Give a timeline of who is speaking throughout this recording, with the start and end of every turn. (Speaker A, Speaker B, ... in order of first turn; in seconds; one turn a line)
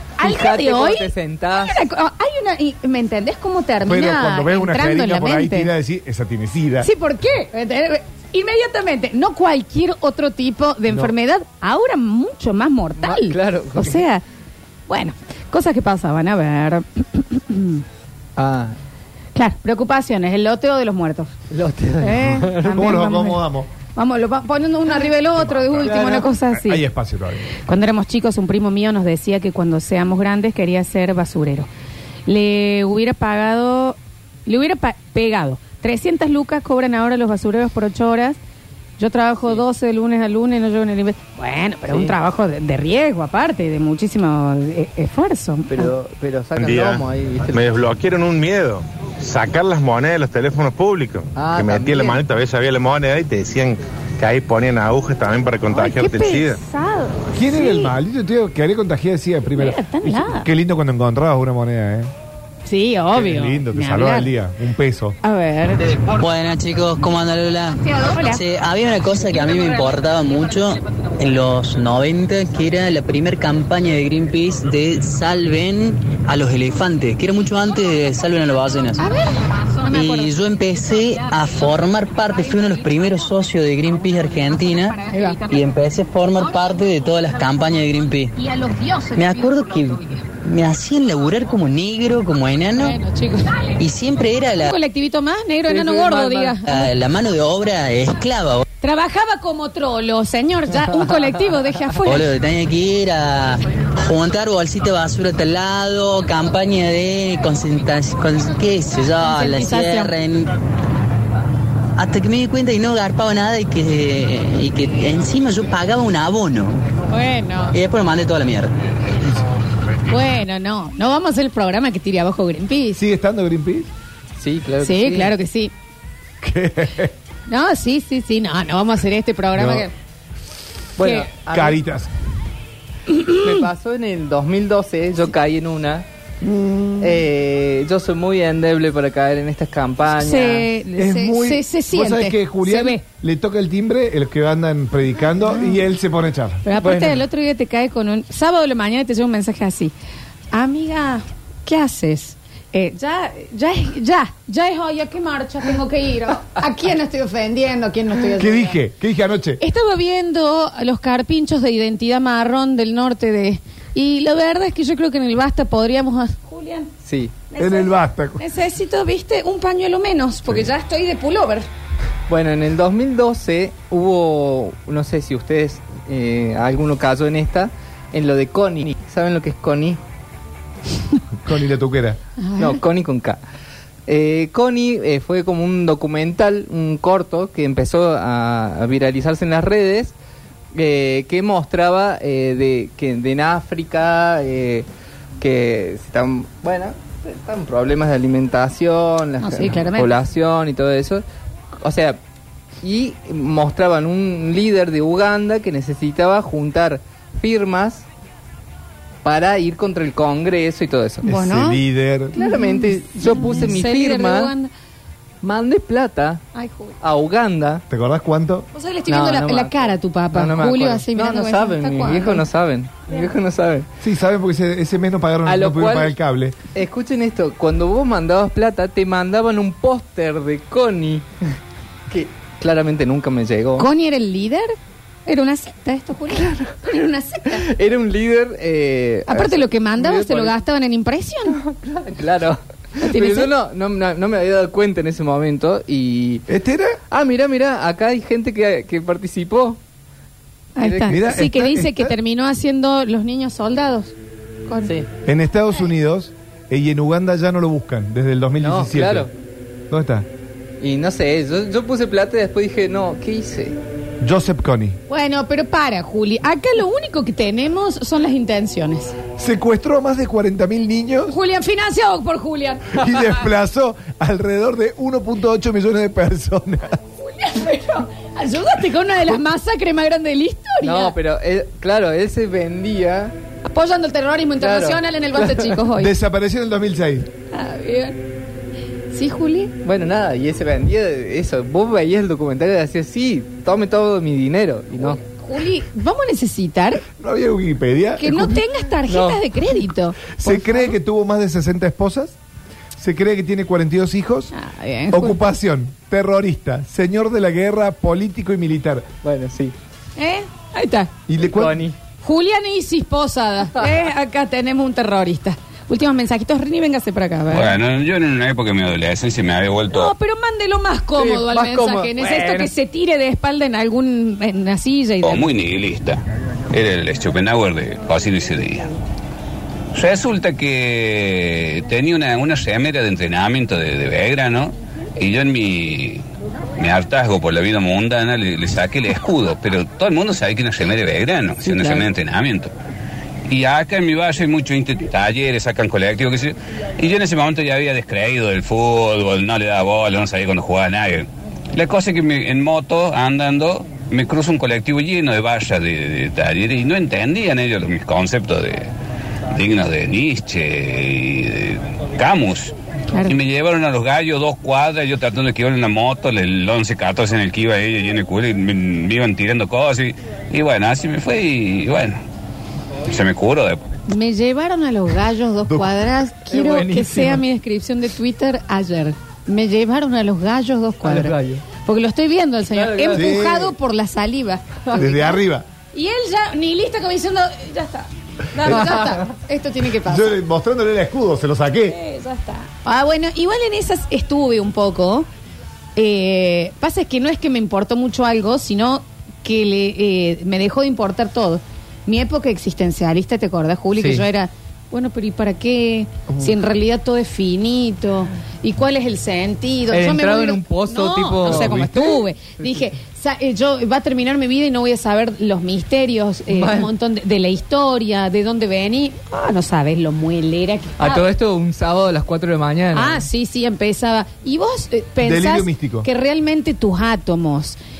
Speaker A: 0.2-5.7
Speaker B: 0.2-1.8
Speaker C: 3.8-6.9
Speaker A: 6.8-14.2
Speaker B: 13.0-14.0
Speaker A: 14.9-17.8
Speaker B: 18.4-18.8
Speaker A: 19.4-21.3
Speaker B: 21.5-23.0
Speaker A: 22.0-23.4
Speaker C: 22.7-23.7
Speaker A: 23.9-26.8
Speaker C: 25.4-27.5
Speaker B: 25.8-26.3
Speaker A: 27.6-31.7
Speaker A: 32.3-38.4
Speaker A: 39.0-45.9
Speaker B: 41.9-42.1
Speaker B: 45.7-47.6
Speaker D: 46.6-56.6
Speaker B: 51.4-52.2
Speaker A: 55.7-57.9
Speaker C: 57.4-62.1
Speaker A: 59.5-60.5
Speaker A: 62.6-64.3
Speaker C: 63.1-65.2
Speaker A: 65.2-65.8
Speaker E: 66.1-79.1
Speaker A: 68.0-68.4
Speaker A: 79.0-80.3
Speaker E: 79.9-93.0
Speaker A: 85.0-85.4
Speaker A: 92.8-93.7
Speaker E: 93.8-94.8
Speaker A: 94.6-96.9
Speaker B: 95.7-96.6
Speaker E: 96.7-98.6
Speaker A: 98.8-102.3
Speaker E: 102.0-110.5
Speaker A: 109.2-110.1
Speaker E: 112.0-116.8
Speaker A: 117.1-117.7
Speaker E: 117.7-118.7
Speaker A: 120.1-123.0
Speaker C: 123.0-123.9
Speaker B: 124.4-125.4
Speaker A: 124.8-125.7
Speaker C: 126.4-127.1
Speaker A: 127.5-129.9
Speaker C: 129.5-129.9
Speaker B: 131.0-131.8
Speaker A: 131.0-131.3
Speaker C: 131.5-132.1
Speaker A: 133.1-133.6
Speaker B: 133.4-136.0
Speaker C: 136.4-137.1
Speaker B: 137.0-140.7
Speaker A: 140.1-143.0
Speaker C: 141.0-146.7
Speaker A: 146.6-149.9
Speaker B: 146.8-147.2
Speaker A: 150.5-158.8
Speaker C: 158.4-159.6
Speaker A: 159.6-166.9
Speaker B: 167.0-167.4
Speaker A: 167.5-171.7
Speaker C: 167.6-168.4
Speaker B: 172.3-180.0
Speaker C: 181.4-182.2
Speaker A: 182.4-182.8
Speaker B: 182.6-183.4
Speaker B: 184.1-190.1
Speaker B: 190.7-194.9
Speaker B: 195.4-201.2
Speaker A: 199.4-200.1
Speaker B: 201.8-202.2
Speaker B: 202.8-208.1
Speaker B: 209.2-211.2
Speaker A: 211.2-211.8
Speaker C: 211.2-212.4
Speaker B: 212.3-214.5
Speaker A: 212.3-214.7
Speaker B: 215.4-216.4
Speaker A: 216.5-217.0
Speaker B: 217.0-217.8
Speaker C: 217.9-218.7
Speaker A: 218.7-222.4
Speaker B: 219.1-223.9
Speaker C: 224.0-226.6
Speaker B: 225.4-226.2
Speaker B: 226.7-231.6
Speaker B: 232.1-233.9
Speaker A: 233.8-234.7
Speaker A: 235.2-237.7
Speaker B: 236.3-236.7
Speaker B: 237.5-240.6
Speaker A: 239.3-241.6
Speaker B: 241.5-246.4
Speaker A: 243.0-243.5
Speaker C: 246.5-247.0
Speaker B: 247.1-249.8
Speaker A: 250.8-254.1
Speaker B: 250.8-251.3
Speaker C: 251.1-252.1
Speaker A: 254.7-254.9
Speaker C: 255.2-259.3
Speaker B: 258.6-259.3
Speaker C: 259.9-260.3
Speaker B: 260.8-263.8
Speaker C: 264.2-265.0
Speaker A: 265.1-269.1
Speaker C: 269.4-271.4
Speaker A: 271.3-273.1
Speaker C: 272.9-277.0
Speaker A: 277.2-281.1
Speaker B: 280.8-283.4
Speaker A: 283.6-286.1
Speaker B: 284.6-285.8
Speaker C: 285.9-287.3
Speaker A: 287.5-288.2
Speaker A: 289.1-289.7
Speaker B: 289.8-295.2
Speaker A: 294.9-297.0
Speaker C: 297.1-298.6
Speaker A: 298.2-300.9
Speaker B: 299.1-299.4
Speaker C: 300.4-302.4
Speaker C: 303.0-304.5
Speaker A: 304.5-305.4
Speaker C: 305.1-309.1
Speaker B: 309.2-309.7
Speaker A: 310.2-311.1
Speaker C: 311.3-311.8
Speaker B: 311.4-311.9
Speaker A: 312.2-317.8
Speaker F: 317.5-320.1
Speaker A: 319.9-325.4
Speaker B: 321.1-322.7
Speaker F: 325.2-328.9
Speaker F: 329.9-336.2
Speaker F: 336.8-342.7
Speaker B: 341.6-342.1
Speaker F: 343.5-358.9
Speaker F: 359.5-372.2
Speaker F: 373.1-373.8
Speaker A: 374.1-385.4
Speaker C: 375.7-375.9
Speaker B: 376.5-377.4
Speaker B: 381.0-381.6
Speaker B: 382.7-383.4
Speaker C: 383.1-383.7
Speaker C: 384.9-385.6
Speaker A: 385.9-390.4
Speaker B: 388.7-389.1
Speaker C: 390.0-392.0
Speaker A: 391.9-395.3
Speaker A: 395.9-421.2
Speaker B: 403.9-404.3
Speaker B: 409.9-412.7
Speaker B: 416.5-416.9
Speaker B: 421.0-423.2
Speaker A: 422.9-427.8
Speaker C: 425.2-426.1